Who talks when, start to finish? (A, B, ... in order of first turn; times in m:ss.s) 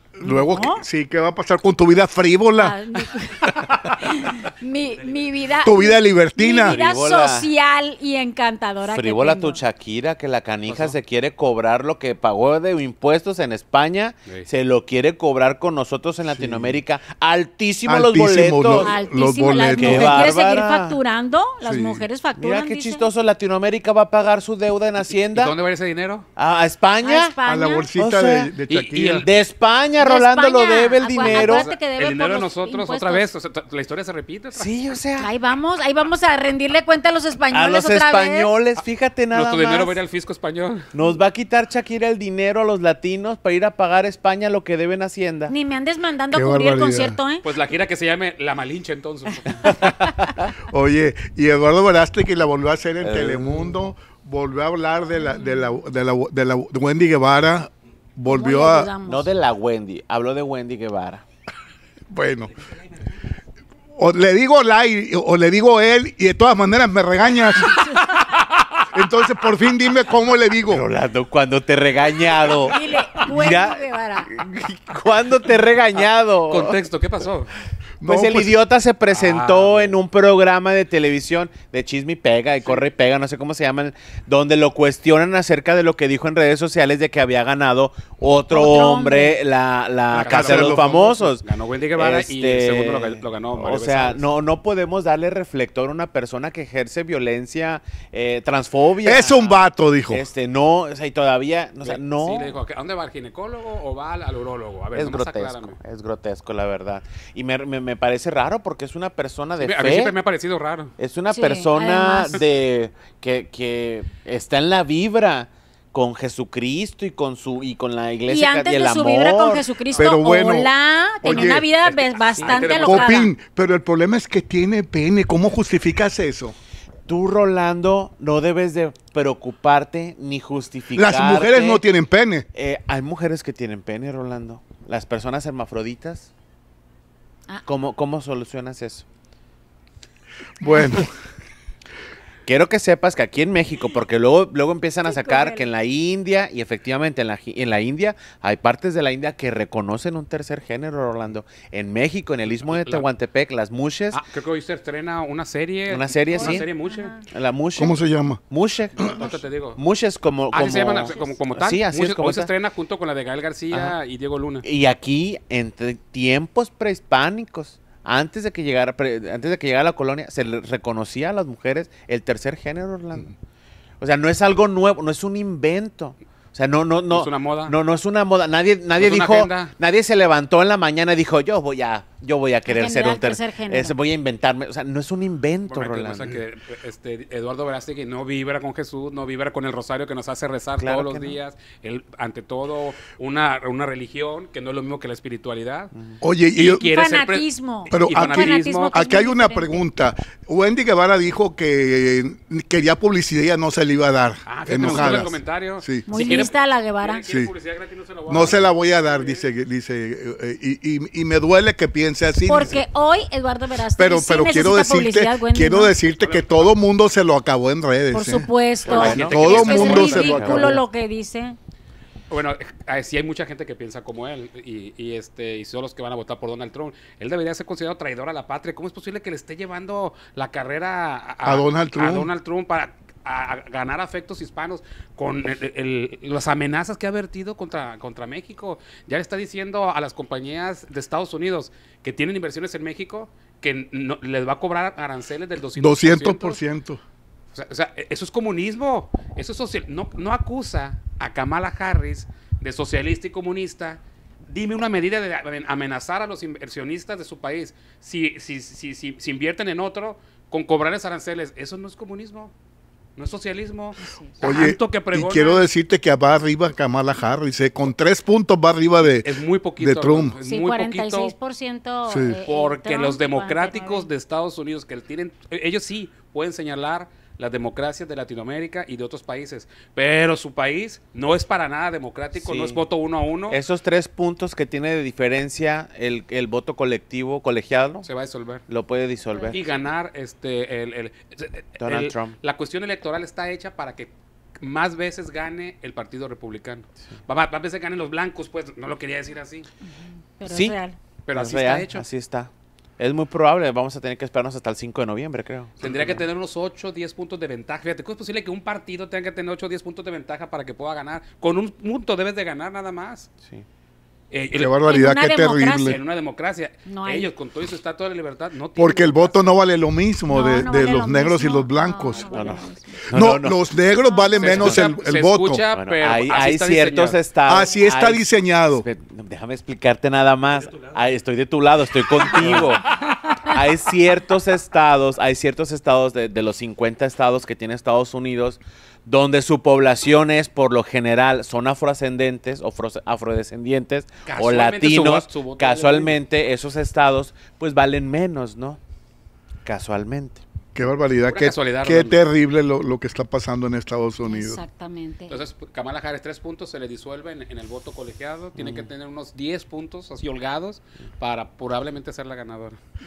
0:00.2-0:02.8 A
0:00.2-0:00.8 B
0:02.6-0:09.6 B
0:05.6-0:06.8 A
0:06.6-0:07.5 C
0:08.9-0:18.9 C
0:10.7-0:11.0 D
0:16.3-0:16.8 A
0:17.9-0:20.3 A
0:18.8-0:23.1 B
0:19.8-0:21.0 C
0:21.6-0:22.1 A
0:22.4-0:25.5 C
0:25.3-0:26.3 D
0:26.4-0:27.3 C
0:27.0-0:27.9 B
0:27.5-0:29.3 A
0:28.0-0:28.5 C
0:28.7-0:29.3 D
0:29.2-0:31.7 C
0:30.0-0:33.3 B
0:31.2-0:34.7 D
0:34.5-0:35.3 C
0:35.2-0:38.5 B
0:37.5-0:40.0 C
0:38.8-0:40.9 D
0:40.9-0:45.5 C
0:45.5-0:47.5 B
0:46.3-0:47.2 A
0:47.4-0:49.8 D
0:49.7-0:50.1 B
0:50.6-0:58.9 A
0:53.0-0:53.8 C
0:55.2-0:55.8 B
0:58.3-0:59.3 B
0:59.1-1:01.2 C
1:02.1-1:02.5 A
1:04.0-1:07.8 A
1:07.6-1:08.7 D
1:07.7-1:08.0 B
1:08.9-1:10.8 A
1:10.7-1:16.8 C
1:12.5-1:14.3 B
1:16.5-1:17.5 D
1:18.0-1:18.6 A
1:18.0-1:31.4 C
1:19.1-1:20.0 D
1:28.5-1:29.4 B
1:30.1-1:34.3 D
1:30.1-1:30.9 A
1:32.0-1:42.6 C
1:39.0-1:40.3 A
1:41.8-1:45.8 D
1:45.0-1:50.2 C
1:49.6-1:50.9 D
1:51.0-1:59.7 C
1:51.3-1:52.5 B
1:58.3-2:03.3 B
1:59.9-2:00.7 A
2:01.2-2:01.7 A
2:01.3-2:03.2 D
2:02.4-2:02.6 C
2:02.8-2:06.6 A
2:07.1-2:11.9 C
2:11.0-2:12.5 A
2:12.5-2:16.3 C
2:17.6-2:19.1 C
2:20.6-2:21.1 A
2:20.6-2:20.9 B
2:22.4-2:34.2 C
2:25.1-2:25.7 B
2:32.5-2:33.1 D
2:34.1-2:37.2 D
2:35.9-2:36.7 C
2:36.3-2:37.2 B
2:37.3-2:38.0 C
2:37.8-2:38.4 A
2:38.5-2:39.1 C
2:39.0-2:39.8 D
2:39.0-2:39.2 A
2:39.8-2:42.5 C
2:40.5-2:44.6 D
2:41.1-2:41.4 B
2:44.6-2:53.3 C
2:54.0-3:06.4 C
2:57.1-2:57.8 D
2:59.0-2:59.7 D
3:02.7-3:04.0 B
3:05.7-3:15.9 D
3:10.8-3:11.4 C
3:16.2-3:16.9 A
3:16.5-3:19.0 D
3:16.8-3:19.8 B
3:17.9-3:26.1 A
3:24.5-3:29.5 D
3:26.1-3:27.3 B
3:28.3-3:32.8 A
3:32.4-3:35.9 B
3:34.0-3:40.8 A
3:36.1-3:36.7 D
3:38.1-3:41.6 B
3:38.8-3:40.7 D
3:38.8-3:40.8 C
3:42.3-4:06.6 D
3:51.4-3:52.3 A
4:05.7-4:07.0 A
4:07.5-4:22.5 D
4:23.2-4:25.7 D
4:24.0-4:24.4 B
4:24.4-4:30.4 A
4:29.0-4:31.3 D
4:30.4-4:34.1 B
4:32.1-4:32.4 A
4:32.4-4:43.6 D
4:42.4-4:42.8 C
4:43.5-4:48.1 C
4:48.0-4:48.6 D
4:48.7-4:49.8 C
4:49.3-4:49.8 B
4:49.5-4:59.7 D
4:51.8-4:52.4 C
4:59.8-5:01.0 B
5:00.5-5:00.8 C
5:01.3-5:02.0 D
5:01.3-5:06.2 C
5:05.8-5:13.3 D
5:14.3-5:14.9 D
5:14.5-5:16.0 A
5:14.9-5:16.0 B
5:15.8-5:19.5 D
5:16.9-5:17.3 B
5:18.8-5:22.4 A
5:20.3-5:23.0 B
5:22.3-5:23.6 C
5:23.0-5:25.6 A
5:24.0-5:24.5 B
5:24.4-5:27.2 D
5:24.4-5:24.9 C
5:25.7-5:48.8 C
5:27.5-5:28.8 A
5:44.3-5:46.2 D
5:49.6-5:50.4 C
5:50.8-5:54.6 A
5:51.3-5:52.2 D
5:54.2-5:55.4 B
5:55.3-6:02.8 D
5:58.6-5:58.9 C